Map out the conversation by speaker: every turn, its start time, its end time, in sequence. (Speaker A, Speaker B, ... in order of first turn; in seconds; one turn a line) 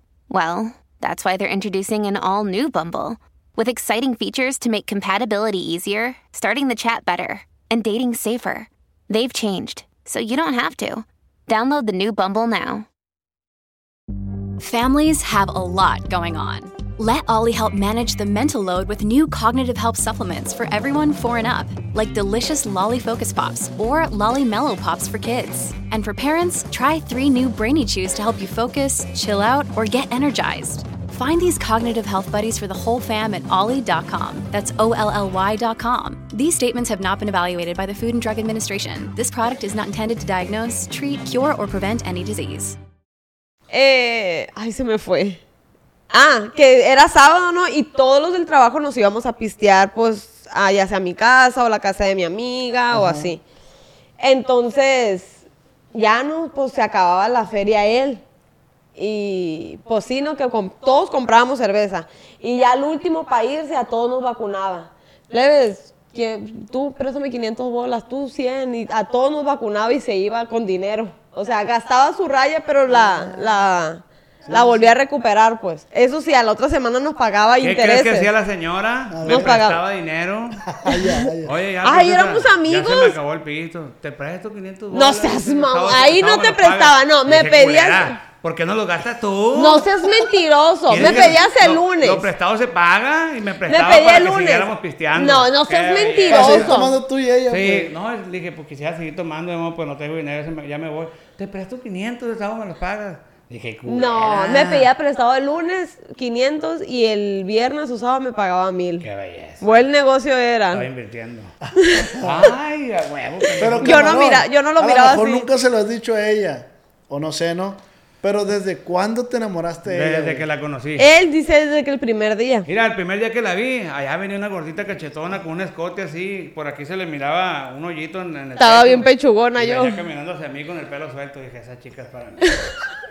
Speaker A: 0.3-12.9
Speaker B: 14.6-42.8
Speaker C: 43.7-45.4
Speaker C: 46.1-53.4
Speaker D: 52.9-53.3
Speaker C: 54.2-55.4
Speaker C: 55.9-58.2
Speaker C: 59.0-78.3
Speaker D: 72.9-73.5
Speaker D: 74.5-74.9
Speaker E: 77.6-80.7
Speaker D: 79.1-79.6
Speaker C: 79.3-79.8
Speaker D: 80.7-81.6
Speaker C: 80.9-81.3
Speaker E: 81.4-89.9
Speaker C: 81.8-83.2
Speaker C: 84.9-88.2
Speaker C: 89.5-92.3
Speaker E: 90.9-96.8
Speaker D: 90.9-91.4
Speaker C: 93.7-96.9
Speaker D: 96.3-97.9
Speaker E: 97.5-104.9
Speaker C: 103.9-109.1
Speaker E: 109.0-109.8
Speaker C: 109.6-110.8
Speaker E: 110.7-111.5
Speaker C: 111.8-112.2
Speaker D: 112.2-112.5
Speaker E: 112.2-114.2
Speaker D: 113.6-120.5
Speaker C: 113.8-115.5
Speaker E: 119.9-121.1
Speaker C: 121.0-122.7
Speaker E: 122.7-132.7
Speaker C: 128.6-130.0